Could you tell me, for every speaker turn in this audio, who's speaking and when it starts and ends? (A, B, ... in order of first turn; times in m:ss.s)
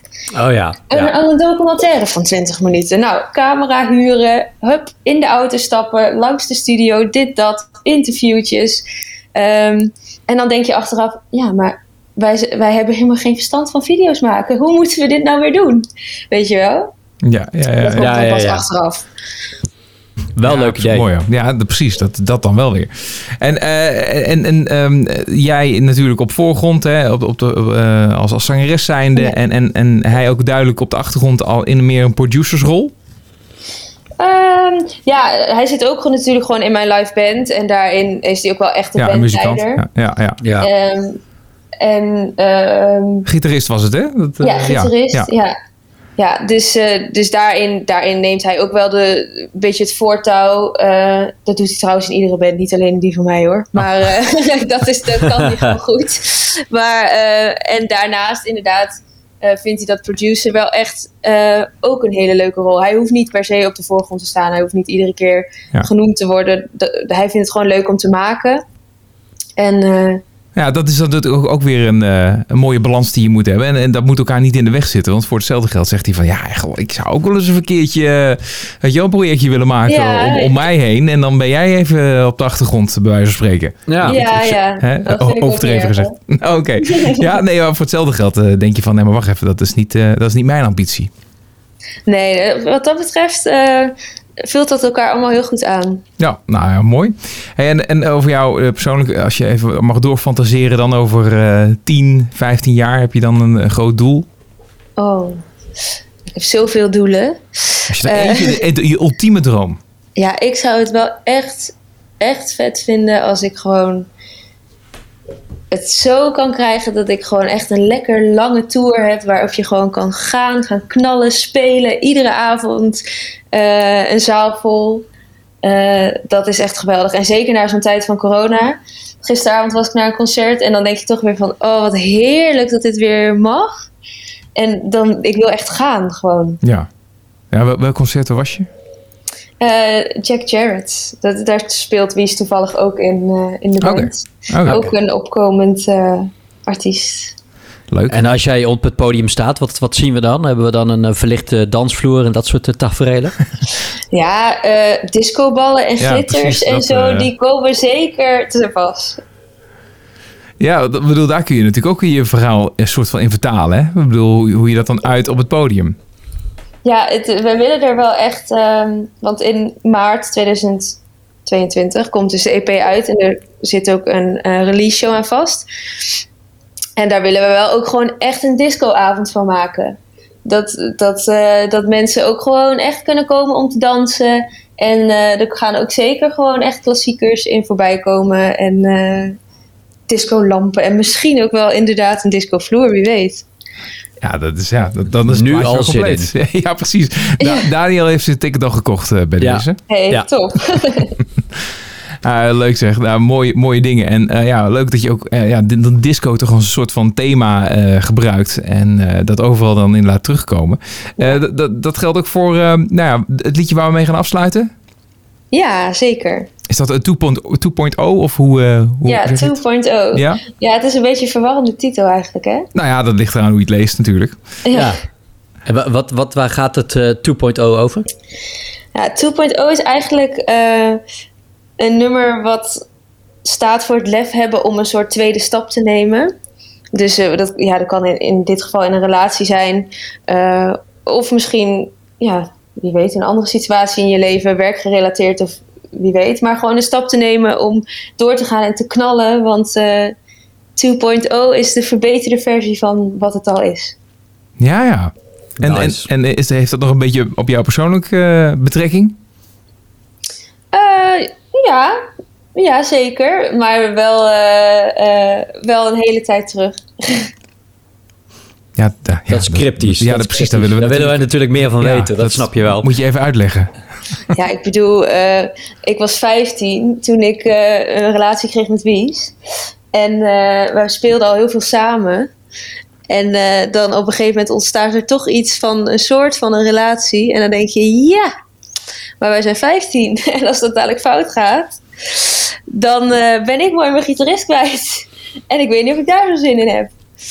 0:00.3-0:01.1 A
0:00.9-0:08.8 B
0:09.4-0:16.9 B
0:17.2-0:18.1 C
0:17.8-0:19.1 B
0:18.0-0:18.6 A
0:20.4-0:21.0 A
0:20.4-0:32.9 C
0:34.2-0:39.8 B
0:39.0-0:40.4 C
0:40.4-0:40.7 A
0:40.6-0:41.2 B
0:41.8-0:43.3 B
0:43.3-0:45.3 C
0:44.4-0:45.6 B
0:46.2-1:08.6 B
1:09.6-1:10.2 B
1:10.6-1:31.1 C
1:19.9-1:20.6 B
1:23.9-1:24.2 A
1:24.0-1:26.2 B
1:26.9-1:27.3 B
1:32.1-1:36.0 B
1:36.2-1:44.3 C
1:45.0-1:45.5 B
1:46.3-1:48.6 B
1:47.9-1:49.8 C
1:50.2-1:54.1 B
1:55.7-2:05.1 B
2:05.6-2:13.9 B
2:14.6-2:16.6 B
2:16.6-2:16.9 C
2:17.5-2:18.7 C
2:19.6-2:27.4 B
2:23.8-2:24.9 C
2:27.9-2:28.3 C
2:28.1-2:33.4 A
2:34.1-2:39.2 B
2:36.0-2:37.3 C
2:40.6-2:46.0 C
2:46.8-2:55.7 B
2:57.0-3:09.4 B
3:10.1-3:13.4 B
3:14.2-3:19.8 C
3:15.3-3:16.3 A
3:17.4-3:17.7 B
3:19.4-3:20.3 A
3:19.9-3:21.2 B
3:22.2-3:34.7 C
3:35.5-3:36.5 B
3:36.7-3:39.6 C
3:39.1-3:42.7 B
3:40.1-3:40.4 C
3:42.7-3:44.4 C
3:44.7-3:45.0 B
3:44.7-3:45.0 A
3:45.7-3:48.1 A
3:49.0-3:51.0 B
3:51.8-3:52.8 B
3:53.4-3:56.3 B
3:56.9-4:10.2 B
4:10.8-4:14.0 B
4:14.6-4:19.2 C
4:15.6-4:16.1 A
4:20.7-4:22.0 B
4:22.6-4:27.3 B
4:28.8-4:33.7 C
4:29.3-4:32.9 A
4:34.3-4:39.3 B
4:39.9-4:42.3 B
4:43.1-4:48.3 B
4:49.2-4:56.9 B